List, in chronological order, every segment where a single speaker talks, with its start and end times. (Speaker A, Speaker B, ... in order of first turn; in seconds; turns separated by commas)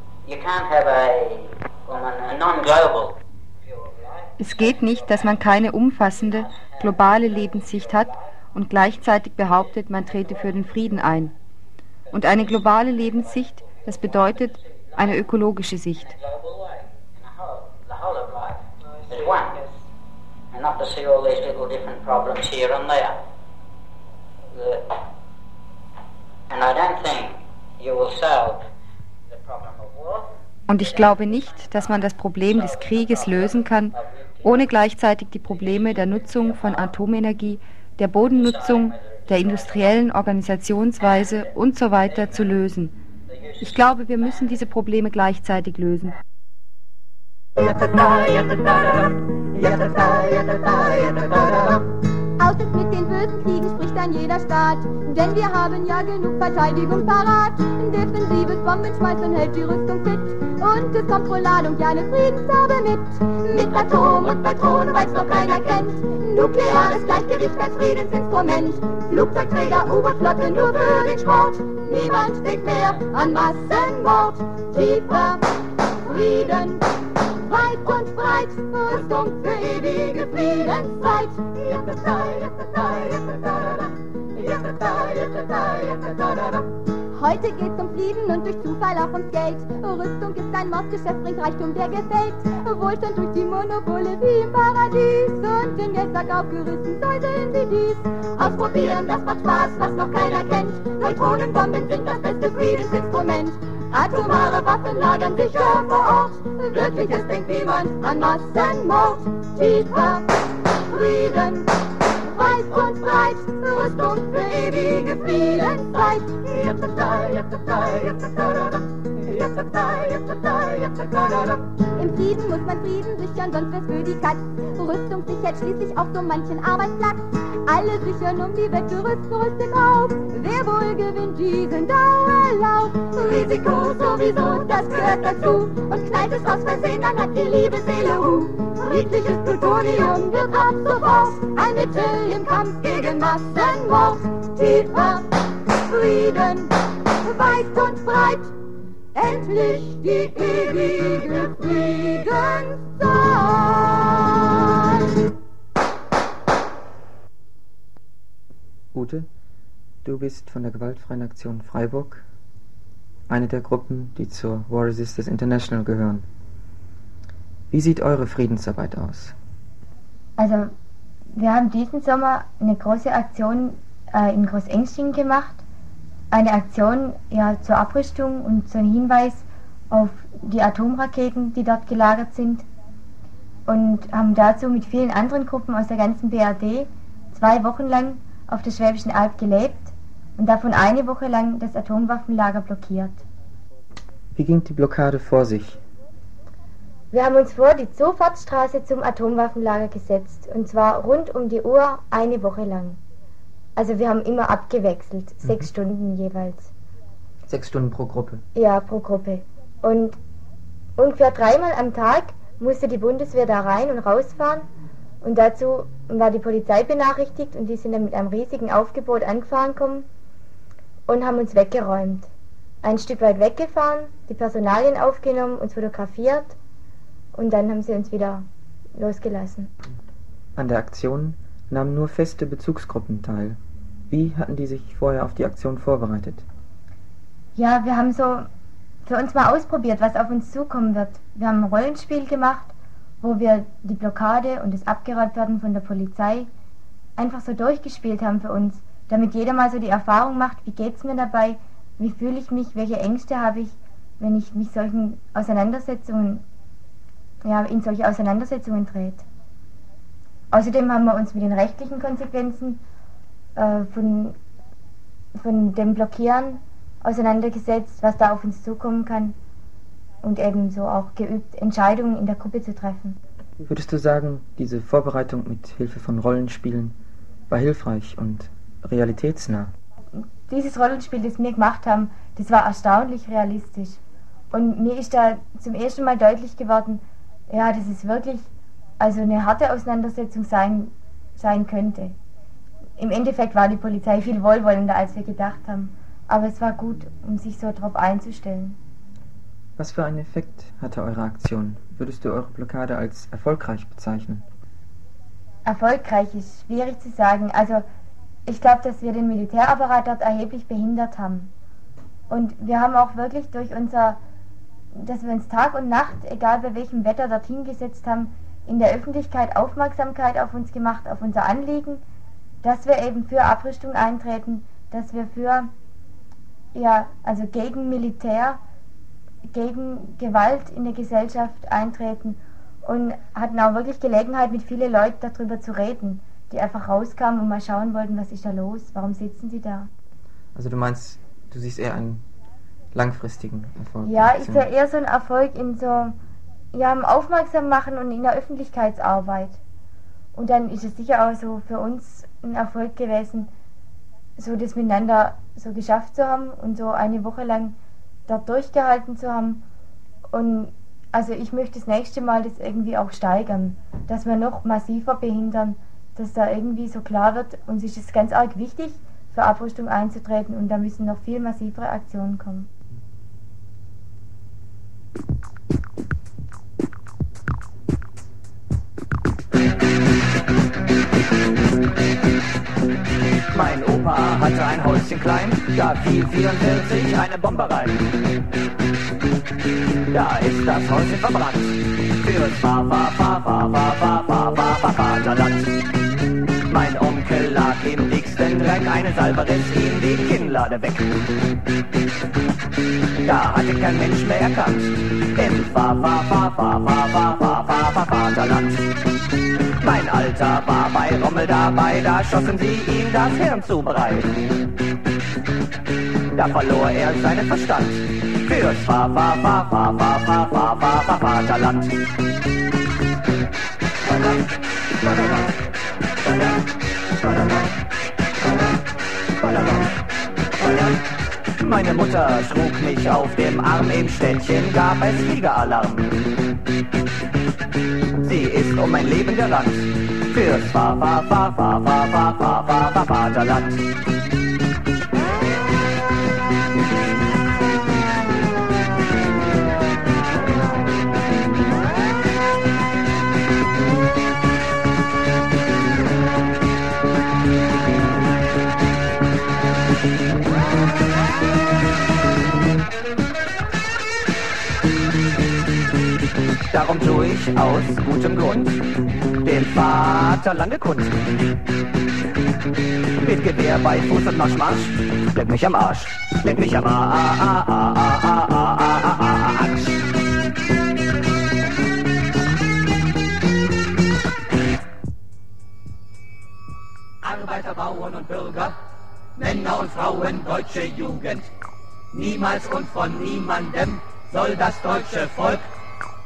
Speaker A: 0.2-3.2, Speaker A: 3.7-4.1, Speaker B: 4.4-11.3, Speaker B: 12.1-16.2, Speaker A: 16.2-19.7, Speaker A: 20.5-23.2, Speaker A: 24.5-24.9, Speaker A: 26.5-28.7, Speaker A: 29.3-30.3, Speaker B: 30.7-42.9, Speaker B: 43.6-46.1, Speaker A: 47.6-51.8, Speaker C: 52.4-75.5, Speaker C: 76.0-76.8, Speaker C: 77.4-110.3, Speaker C: 110.9-111.7, Speaker C: 112.3-148.5, Speaker C: 149.2-155.1, Speaker D: 158.9-159.3, Speaker D: 160.1-162.2, Speaker D: 163.3-166.3, Speaker D: 167.7-169.3, Speaker B: 170.4-170.7, Speaker B: 171.3-175.6, Speaker B: 176.3-182.7, Speaker B: 183.7-193.2, Speaker D: 194.3-195.8, Speaker B: 197.1-203.0, Speaker B: 203.8-206.7, Speaker D: 207.5-208.4, Speaker B: 208.6-210.2, Speaker B: 211.0-214.7, Speaker B: 215.2-220.1, Speaker B: 221.1-222.3, Speaker B: 222.8-226.6, Speaker B: 227.3-229.7, Speaker D: 230.6-233.6, Speaker D: 234.1-236.4, Speaker B: 237.6-238.5, Speaker B: 239.1-246.5, Speaker B: 247.2-256.4, Speaker B: 257.4-259.2, Speaker B: 260.5-262.8, Speaker B: 263.6-264.4, Speaker B: 265.4-269.4, Speaker B: 270.2-273.2, Speaker D: 273.6-277.0, Speaker D: 277.5-279.7, Speaker B: 280.2-284.0, Speaker B: 284.5-288.5, Speaker B: 289.0-292.2, Speaker B: 293.0-298.8, Speaker D: 299.8-304.4, Speaker B: 305.6-307.9, Speaker B: 308.5-311.5, Speaker B: 312.3-314.2, Speaker B: 314.9-322.0, Speaker B: 322.6-325.7, Speaker B: 326.7-328.6, Speaker B: 329.5-339.9, Speaker D: 340.6-342.2, Speaker D: 342.9-344.7, Speaker B: 344.0-346.1, Speaker B: 346.7-349.6, Speaker B: 350.4-353.5, Speaker B: 354.4-357.8, Speaker B: 358.3-359.6, Speaker B: 360.3-372.7, Speaker E: 383.5-388.1, Speaker E: 390.1-395.7, Speaker E: 396.7-401.2, Speaker E: 403.2-408.8, Speaker E: 409.8-414.4, Speaker E: 416.3-421.9, Speaker E: 424.1-424.4, Speaker E: 425.0-425.5, Speaker E: 426.2-426.6, Speaker E: 427.2-427.7, Speaker E: 429.4-429.9, Speaker E: 430.6-431.0, Speaker E: 431.6-436.2, Speaker E: 438.2-443.8, Speaker E: 466.7-468.8, Speaker E: 469.4-471.2, Speaker E: 473.2-480.0, Speaker F: 487.2-488.7, Speaker F: 489.4-491.5, Speaker F: 492.1-495.7